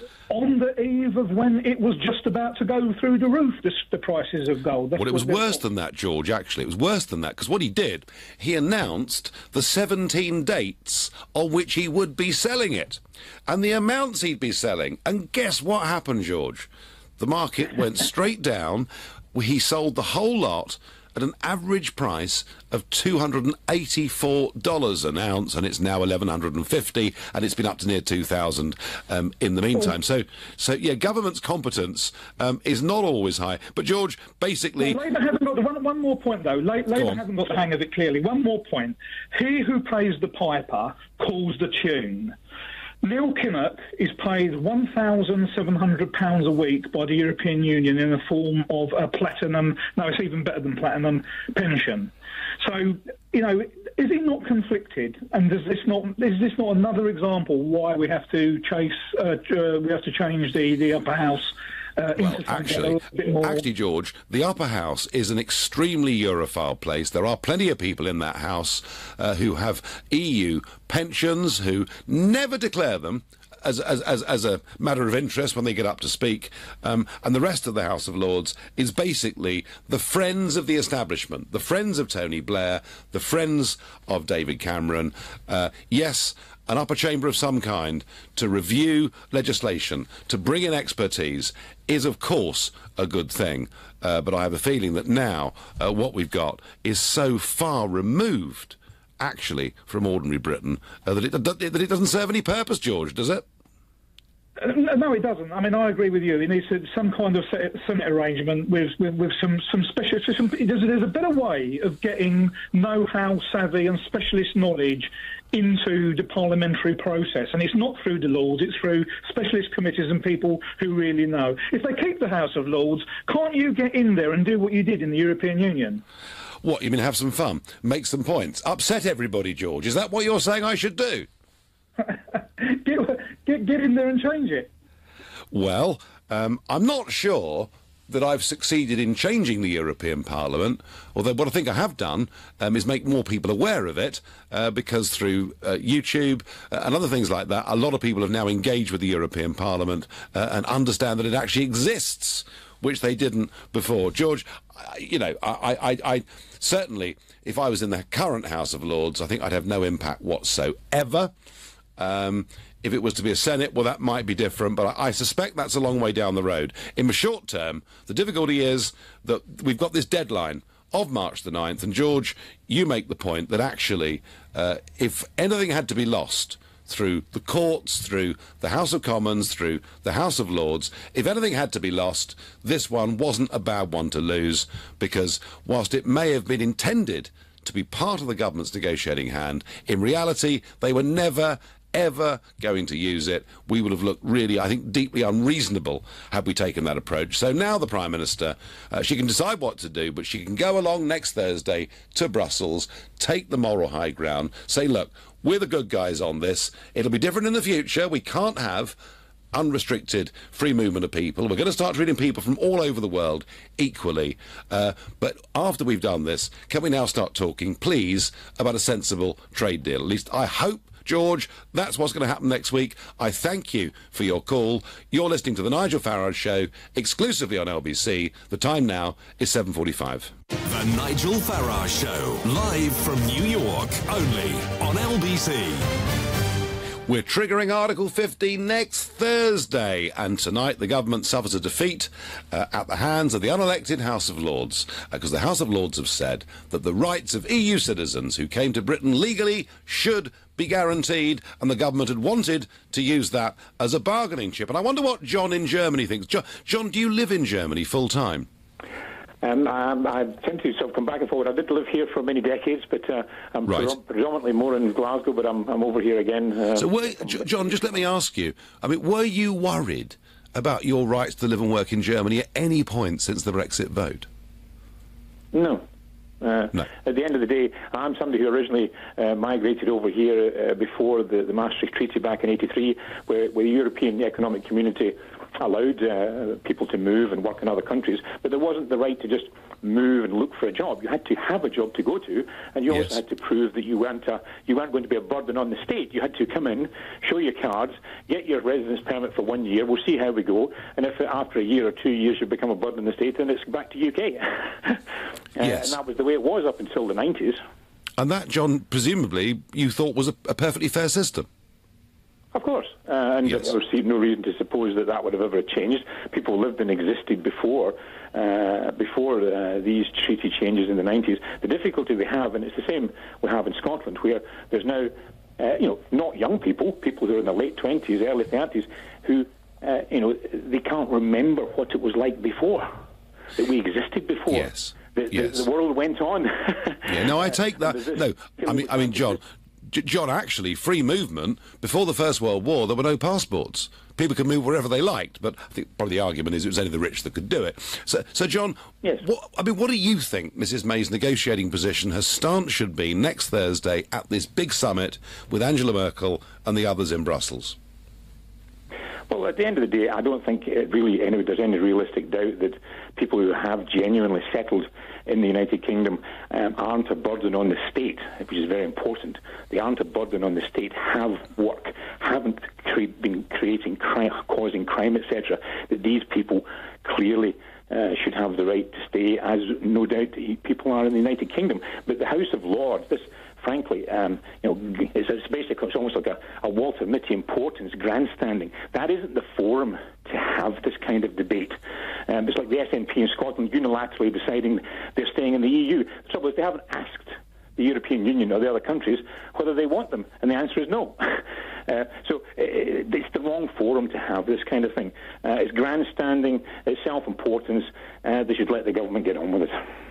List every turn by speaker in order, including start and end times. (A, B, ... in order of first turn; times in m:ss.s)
0:00.3-0:05.6 A
0:05.0-0:35.0 B
0:34.8-0:42.4 A
0:36.9-0:37.2 B
0:43.0-1:03.6 A
1:02.2-1:43.4 B
1:44.6-2:06.0 A
2:06.6-2:11.3 B
2:12.1-2:14.7 A
2:15.5-2:41.3 B
2:42.0-3:29.0 B
3:29.5-3:50.3 B
3:50.6-3:55.9 C
3:57.0-4:18.5 B
4:19.4-4:27.4 D
4:23.7-4:24.0 B
4:26.8-4:34.3 B
4:35.5-4:35.8 D
4:36.4-5:05.0 D
4:52.9-4:53.2 B
5:05.6-5:07.6 D
5:05.6-5:06.0 B
5:08.2-5:11.5 B
5:12.5-5:32.9 D
5:33.6-5:39.4 D
5:34.5-5:35.6 B
5:37.1-5:57.8 B
5:59.3-6:49.9 D